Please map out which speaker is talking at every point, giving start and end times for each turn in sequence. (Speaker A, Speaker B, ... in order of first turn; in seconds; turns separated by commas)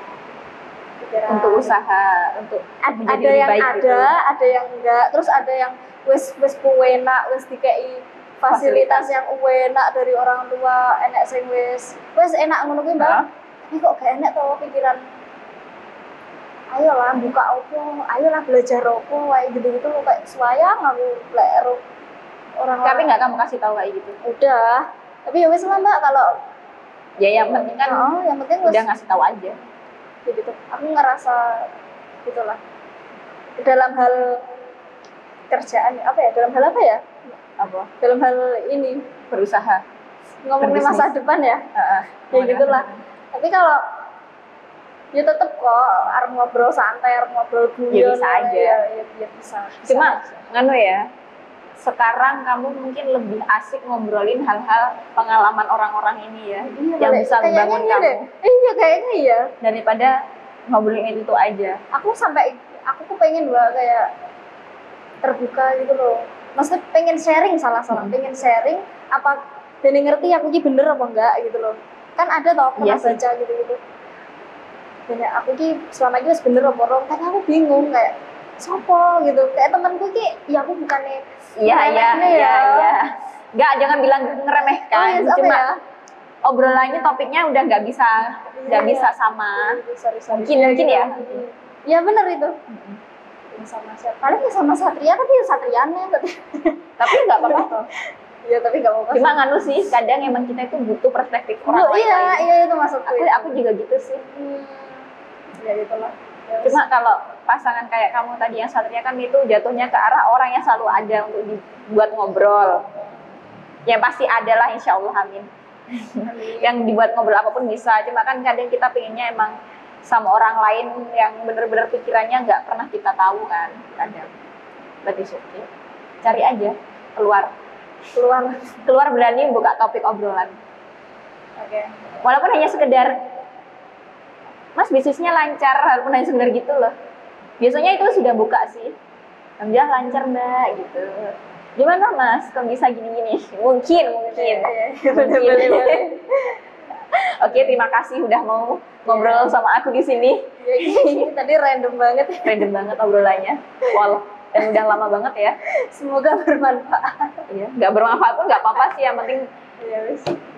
Speaker A: 1.0-1.7, Speaker B: 1.3-4.1, Speaker A: 2.9-15.0, Speaker B: 8.5-9.1, Speaker B: 13.0-13.3, Speaker A: 16.7-21.8, Speaker A: 22.6-23.1, Speaker B: 22.8-24.2, Speaker A: 24.2-26.3, Speaker B: 27.2-28.1, Speaker A: 27.9-28.9, Speaker B: 28.6-29.6, Speaker A: 30.3-31.7, Speaker A: 32.2-32.6, Speaker A: 33.6-34.4, Speaker A: 35.5-37.2, Speaker B: 37.6-37.9, Speaker A: 38.0-39.0, Speaker B: 39.3-39.8, Speaker A: 40.5-41.6, Speaker B: 40.6-41.1, Speaker B: 41.8-43.0, Speaker A: 42.3-43.8, Speaker A: 45.1-50.3, Speaker B: 47.9-48.8, Speaker B: 49.9-51.0, Speaker B: 51.8-58.3, Speaker A: 56.6-59.5, Speaker B: 59.6-60.1, Speaker B: 60.7-61.8, Speaker A: 61.9-64.1, Speaker A: 65.2-73.8, Speaker B: 67.9-68.2, Speaker B: 72.8-73.2, Speaker A: 75.1-83.0, Speaker B: 81.6-85.7, Speaker A: 84.9-85.8, Speaker B: 86.5-89.8, Speaker A: 88.6-92.6, Speaker B: 90.3-91.4, Speaker B: 92.7-93.0, Speaker A: 93.5-97.9, Speaker B: 97.0-97.9, Speaker A: 98.5-99.5, Speaker B: 99.1-102.5, Speaker A: 101.7-103.6, Speaker B: 103.1-104.2, Speaker A: 104.2-105.0, Speaker A: 105.6-106.8, Speaker B: 106.6-112.8, Speaker B: 113.9-124.3, Speaker A: 116.2-116.7, Speaker B: 125.0-125.7, Speaker B: 126.2-127.5, Speaker A: 128.1-128.8, Speaker B: 128.8-130.6, Speaker A: 131.6-131.9, Speaker B: 132.2-133.2, Speaker B: 134.8-136.9, Speaker B: 137.6-139.0, Speaker B: 139.6-146.1, Speaker A: 144.3-146.6, Speaker B: 147.1-151.3, Speaker A: 149.1-149.5, Speaker A: 150.6-152.7, Speaker B: 152.4-155.6, Speaker A: 155.8-157.4, Speaker B: 157.5-159.5, Speaker A: 159.8-160.4